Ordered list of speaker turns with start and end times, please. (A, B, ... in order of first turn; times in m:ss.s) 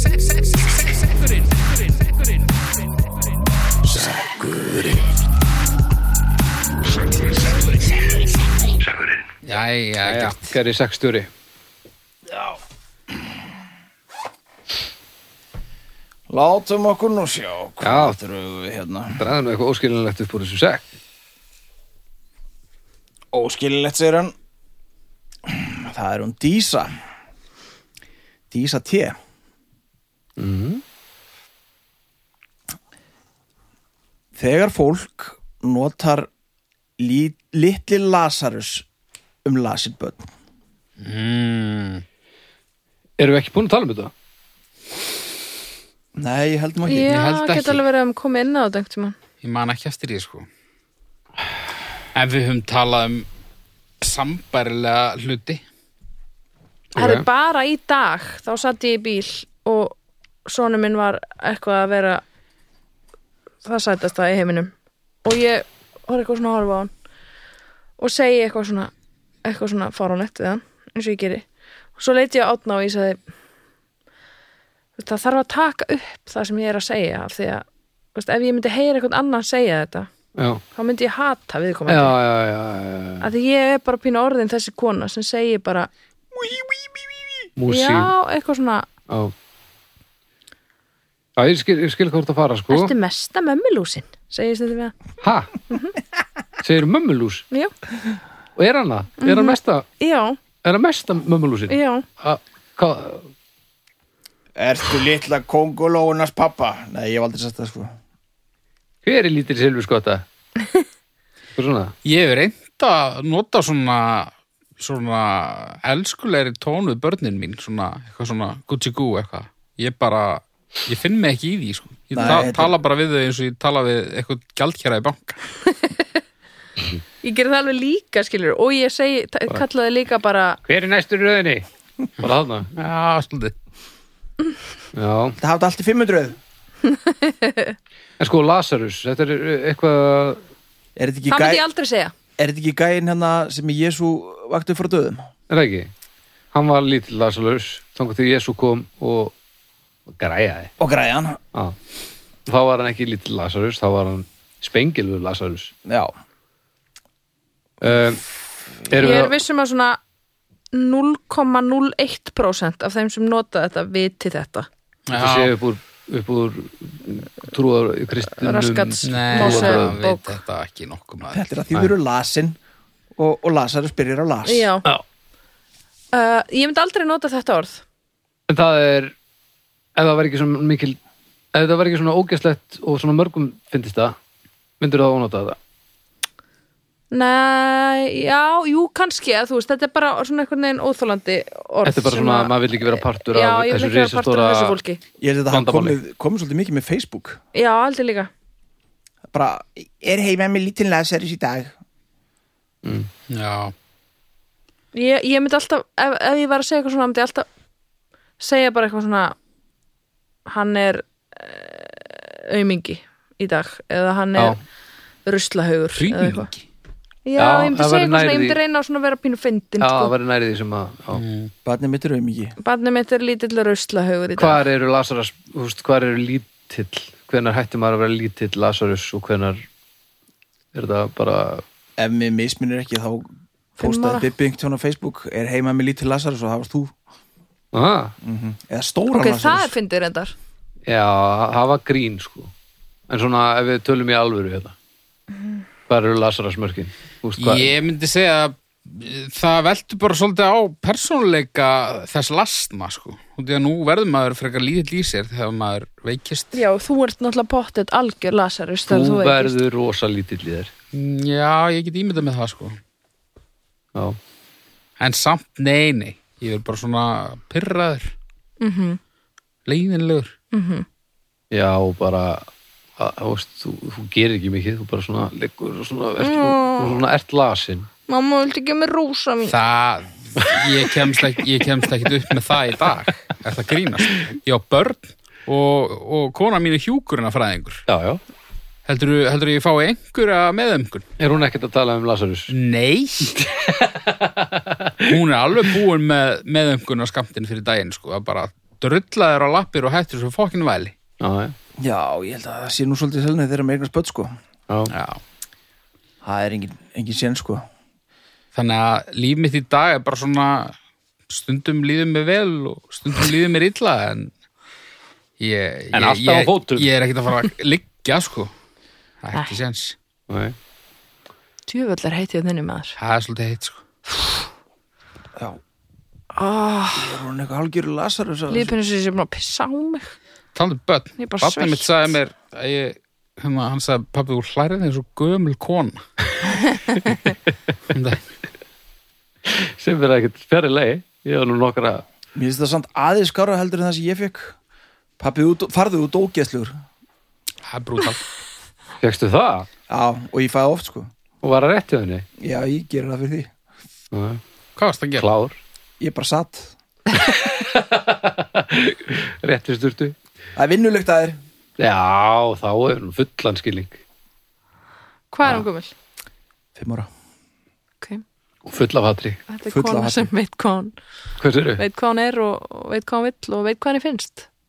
0:03.8-0:05.1 A
0:09.4-0:10.5 B
0:10.0-0:11.3 C
0:16.3-0:19.2 A
0:17.8-0:18.2 C
0:19.2-0:20.9 C
0:23.3-0:24.3 A
0:25.4-0:26.9 A
0:28.5-0:29.2 A
0:30.4-0:30.8 C
0:34.3-0:36.3 A
0:37.0-0:38.8 A
0:39.4-0:40.3 A
0:41.0-0:42.0 B
0:43.2-0:44.1 C
0:46.2-0:47.1 A
0:46.8-0:49.1 D
0:47.0-0:47.8 B
0:49.4-0:50.5 B
0:52.1-0:53.3 B
0:54.0-0:55.6 B
0:56.9-0:57.2 C
0:57.0-0:59.9 D
1:00.4-1:02.2 D
1:03.6-1:04.7 D
1:05.2-1:06.9 D
1:08.0-1:08.9 D
1:09.4-1:11.4 D
1:12.0-1:13.2 D
1:15.0-1:20.1 D
1:20.4-1:20.6 C
1:20.7-1:22.2 D
1:21.9-1:23.3 C
1:23.2-1:25.9 D
1:26.4-1:27.0 A
1:27.6-1:28.1 C
1:27.7-1:28.9 D
1:29.1-1:29.3 C
1:31.4-1:32.9 C
1:32.7-1:35.0 D
1:35.2-1:35.5 C
1:35.7-1:35.9 D
1:36.6-1:37.4 C
1:38.6-1:39.8 C
1:39.2-1:40.4 D
1:40.6-1:43.3 C
1:41.7-1:42.0 D
1:44.6-1:47.9 A
1:49.0-1:50.2 C
1:51.6-1:51.9 C
1:52.0-2:05.4 B
2:02.1-2:02.7 A
2:07.2-2:10.6 D
2:10.6-2:11.6 C
2:12.2-2:12.7 C
2:12.7-2:13.5 B
2:14.9-2:15.4 C
2:15.4-2:16.4 A
2:16.8-2:17.7 D
2:18.2-2:20.4 C
2:21.0-2:21.6 A
2:21.3-2:22.1 D
2:22.4-2:25.3 A
2:25.5-2:25.9 C
2:26.5-2:29.3 C
2:30.1-2:30.7 C
2:30.8-2:31.4 A
2:32.4-2:35.7 C
2:35.8-2:36.1 A
2:37.8-2:38.2 C
2:38.9-2:39.3 C
2:39.0-2:40.0 D
2:40.7-2:44.7 D
2:45.1-2:45.5 B
2:45.1-2:50.0 C
2:48.4-2:50.4 D
2:49.0-2:51.4 B
2:51.3-2:52.6 A
2:53.2-2:54.7 A
2:54.4-2:54.8 D
2:56.1-2:57.8 D
2:58.5-2:59.1 C
3:00.0-3:01.0 C
3:01.5-3:04.2 C
3:04.8-3:05.6 C
3:07.1-3:15.0 D
3:11.8-3:14.8 C
3:15.2-3:17.4 A
3:15.5-3:16.0 C
3:17.5-3:18.3 D
3:19.3-3:21.7 A
3:22.8-3:23.1 C
3:23.3-3:23.7 B
3:24.9-3:27.4 D
3:28.4-3:29.3 D
3:30.5-3:34.6 D
3:35.2-3:36.5 D
3:36.0-3:36.6 B
3:37.2-3:40.1 D
3:37.4-3:38.6 C
3:39.8-3:41.2 C
3:41.1-3:41.5 B
3:41.6-3:42.6 A
3:42.6-3:44.6 D
3:44.4-3:49.6 C
3:50.7-3:51.6 C
3:52.0-3:53.3 A
3:53.8-3:54.3 D
3:53.8-3:56.9 A
3:57.7-3:58.1 C
3:58.2-3:59.7 A
3:59.1-4:00.3 D
4:00.9-4:02.5 C
4:03.1-4:04.8 C
4:05.3-4:05.6 D
4:05.9-4:07.7 C
4:07.4-4:16.6 B
4:16.5-4:19.6 D
4:18.9-4:20.7 C
4:20.9-4:22.8 B
4:25.0-4:28.1 B
4:28.6-4:29.0 D
4:29.6-4:30.3 B
4:30.5-4:30.8 D
4:31.5-4:37.9 C
4:36.2-4:37.0 D
4:38.1-4:39.6 D
4:39.5-4:47.8 B
4:47.9-4:48.2 C
4:48.8-4:51.0 B
4:51.2-4:52.5 C
4:52.5-4:53.4 B
4:53.3-4:55.2 C
4:55.0-5:01.0 B
5:01.2-5:01.5 C
5:01.8-5:04.3 A
5:04.9-5:05.2 B
5:06.2-5:07.6 A
5:08.5-5:10.7 B
5:11.3-5:14.3 B
5:15.4-5:18.5 B
5:15.9-5:16.9 C
5:19.2-5:20.0 B
5:20.3-5:20.5 C
5:21.7-5:23.0 D
5:23.0-5:23.8 B
5:24.1-5:24.4 D
5:26.3-5:27.2 D
5:26.9-5:28.7 A
5:28.5-5:30.1 D
5:30.5-5:36.0 B
5:31.2-5:31.9 D
5:37.9-5:38.2 B
5:39.5-5:42.0 C
5:42.3-5:44.6 A
5:45.2-5:46.7 A
5:47.6-5:48.3 B
5:49.0-5:49.7 C
5:49.9-5:51.1 A
5:51.4-5:52.2 C
5:52.4-5:53.5 A
5:54.1-5:54.4 C
5:54.8-5:55.2 B
5:55.2-5:55.6 C
5:56.0-5:56.7 A
5:57.4-6:00.2 C
6:00.6-6:01.4 A
6:01.8-6:04.0 C
6:05.3-6:05.9 D
6:06.8-6:07.1 A
6:08.6-6:09.4 C
6:09.5-6:10.9 D
6:09.7-6:10.3 A
6:11.4-6:11.8 C
6:11.8-6:14.5 D